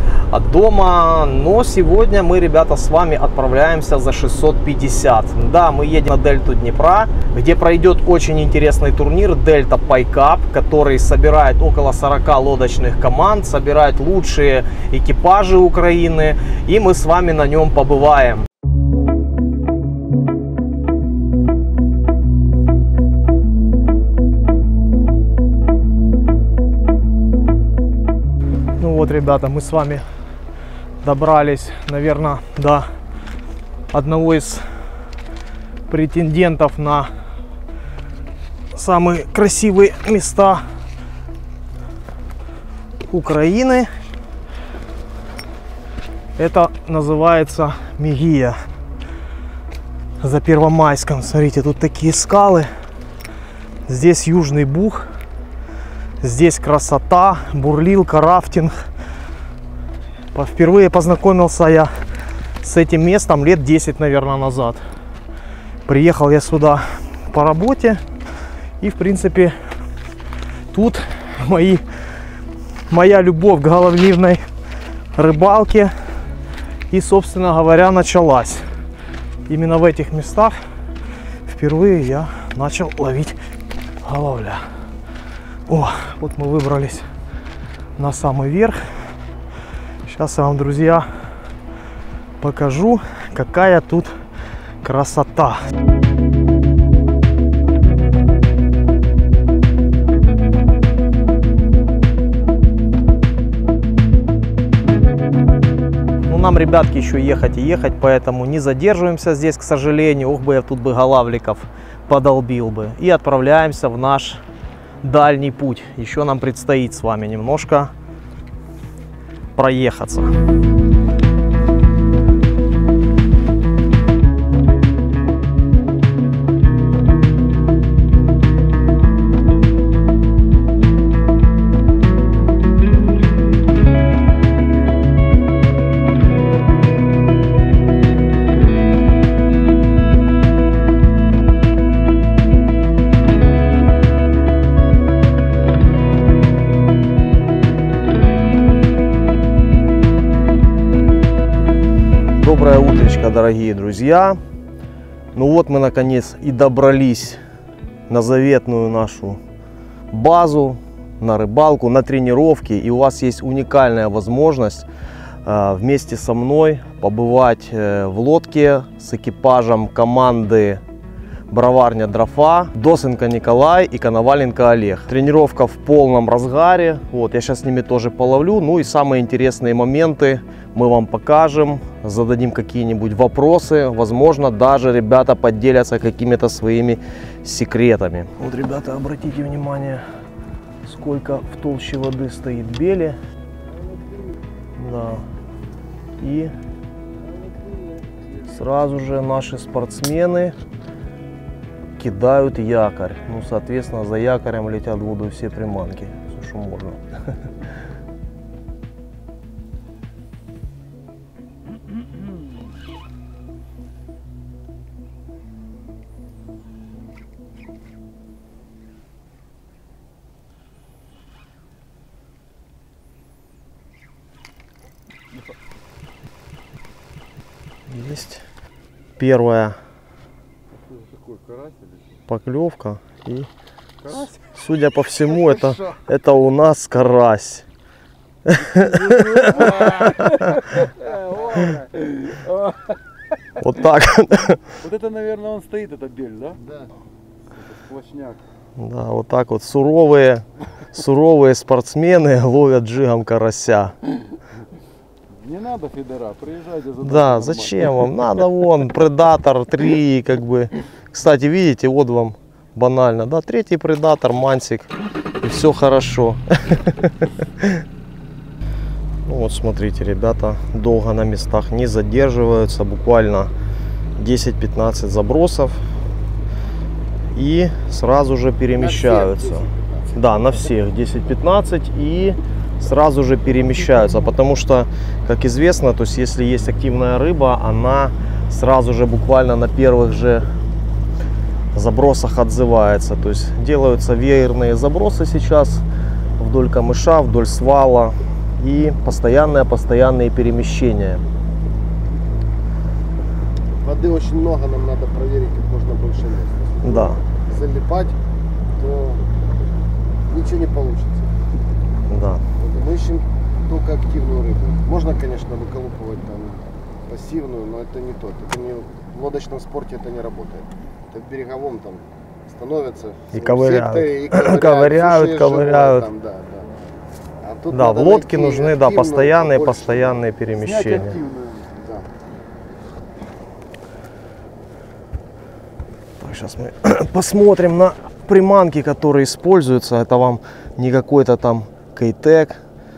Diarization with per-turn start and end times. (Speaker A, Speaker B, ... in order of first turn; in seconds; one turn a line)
Speaker A: 0.3-18.4
Speaker A: 28.8-30.0
Speaker A: 31.0-32.9
Speaker A: 33.9-34.6
Speaker A: 35.9-37.1
Speaker A: 38.7-40.6
Speaker A: 43.1-43.9
Speaker A: 46.4-48.6
Speaker A: 50.2-52.7
Speaker A: 53.9-55.1
Speaker A: 56.2-58.8
Speaker A: 60.3-61.9
Speaker A: 62.6-64.8
Speaker A: 65.8-68.0
Speaker A: 68.8-69.5
Speaker A: 70.7-71.8
Speaker A: 72.9-74.4
Speaker A: 75.1-75.9
Speaker A: 76.9-78.6
Speaker A: 79.5-80.6
Speaker A: 81.5-83.4
Speaker A: 84.0-84.6
Speaker A: 85.7-87.0
Speaker A: 88.0-88.8
Speaker A: 90.0-91.1
Speaker A: 92.4-94.1
Speaker A: 94.8-95.6
Speaker A: 106.3-114.4
Speaker A: 115.0-117.9
Speaker A: 119.5-120.3
Speaker A: 152.4-154.4
Speaker A: 155.3-157.4
Speaker A: 158.1-159.4
Speaker A: 160.1-164.8
Speaker A: 165.4-170.8
Speaker A: 171.5-190.0
Speaker A: 190.8-193.2
Speaker B: 193.7-194.3
Speaker A: 194.8-195.2
Speaker A: 196.2-196.5
Speaker B: 197.2-198.0
Speaker A: 198.5-200.5
Speaker A: 202.0-207.0
Speaker A: 227.9-228.4
Speaker A: 229.2-229.8
Speaker B: 230.8-232.1
Speaker A: 232.3-233.5
Speaker B: 234.0-234.4
Speaker A: 234.5-237.6
Speaker A: 238.4-240.3
Speaker B: 238.7-243.0
Speaker A: 243.6-244.7
Speaker B: 244.8-246.6
Speaker C: 246.6-246.9
Speaker B: 247.5-248.4
Speaker A: 248.8-253.9
Speaker B: 255.3-258.1
Speaker A: 257.0-267.8
Speaker A: 269.2-273.5
Speaker A: 274.2-275.8
Speaker A: 277.3-290.5
Speaker C: 278.8-280.1
Speaker A: 291.7-295.8
Speaker A: 296.4-301.2
Speaker C: 303.8-308.1
Speaker A: 306.8-307.2
Speaker C: 308.8-309.2
Speaker C: 310.3-311.3
Speaker A: 312.1-312.4
Speaker C: 312.6-326.7
Speaker A: 323.3-326.1
Speaker C: 327.4-330.3
Speaker A: 327.7-331.2
Speaker B: 330.6-331.7
Speaker C: 331.7-332.1
Speaker A: 336.2-342.6